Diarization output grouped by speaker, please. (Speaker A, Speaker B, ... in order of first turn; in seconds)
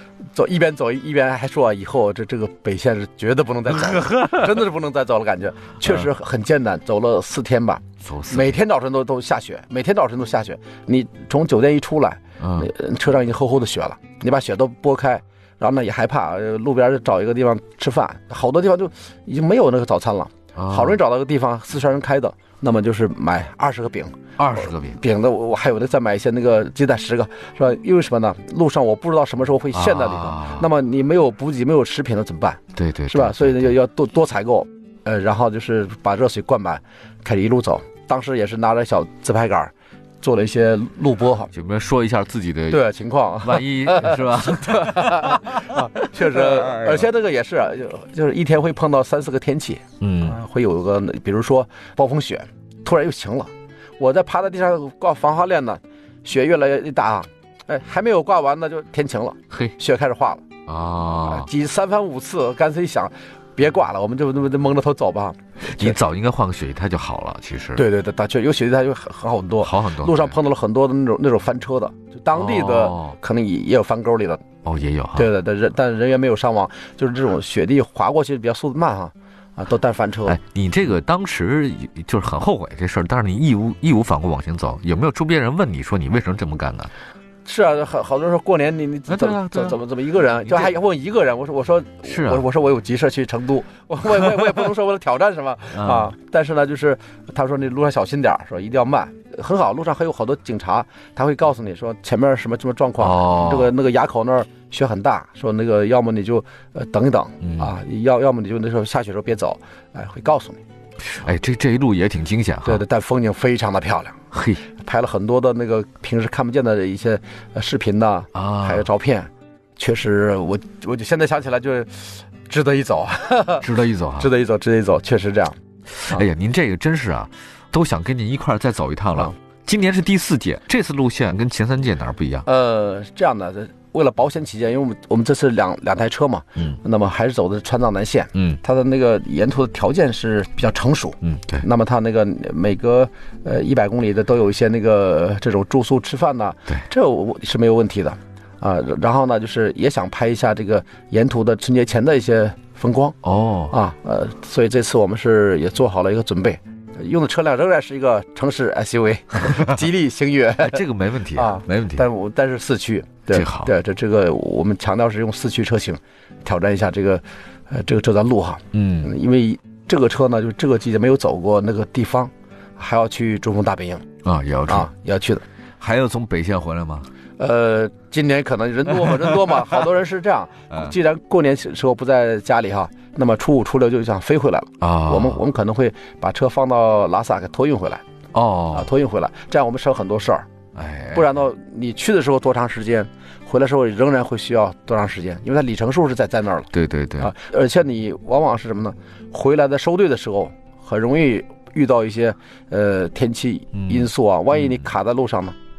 Speaker A: 0.3-41.5, 42.7-60.5, 61.2-66.0, 67.7-74.4, 75.1-80.4, 87.4-110.6, 112.6-114.2, 114.8-123.7, 124.2-125.5, 132.4-153.2, 153.7-174.1, 174.7-175.4, 177.4-188.0, 188.7-190.4, 191.1-205.5
Speaker B: 4.0-4.5, 8.0-8.6, 12.4-12.7, 20.5-21.0, 24.4-25.0, 29.7-30.7, 32.7-33.8, 41.5-42.9, 43.4-47.0, 50.0-50.4, 60.7-61.5, 65.6-67.9, 69.6-70.3, 72.3-73.2, 74.6-75.3, 80.3-86.9, 89.1-89.8, 90.4-90.8, 92.0-92.4, 95.7-96.1, 103.0-103.7, 107.4-107.7, 111.0-112.8, 114.3-114.6, 118.3-118.9, 123.6-124.3, 126.0-132.4, 138.3-138.6, 141.2-141.6, 153.2-153.8, 160.6-162.1, 163.3-163.7, 168.7-169.1, 174.2-174.9, 175.8-177.1, 184.8-185.4, 188.3-188.9, 190.7-191.3, 196.7-197.3, 203.7-204.8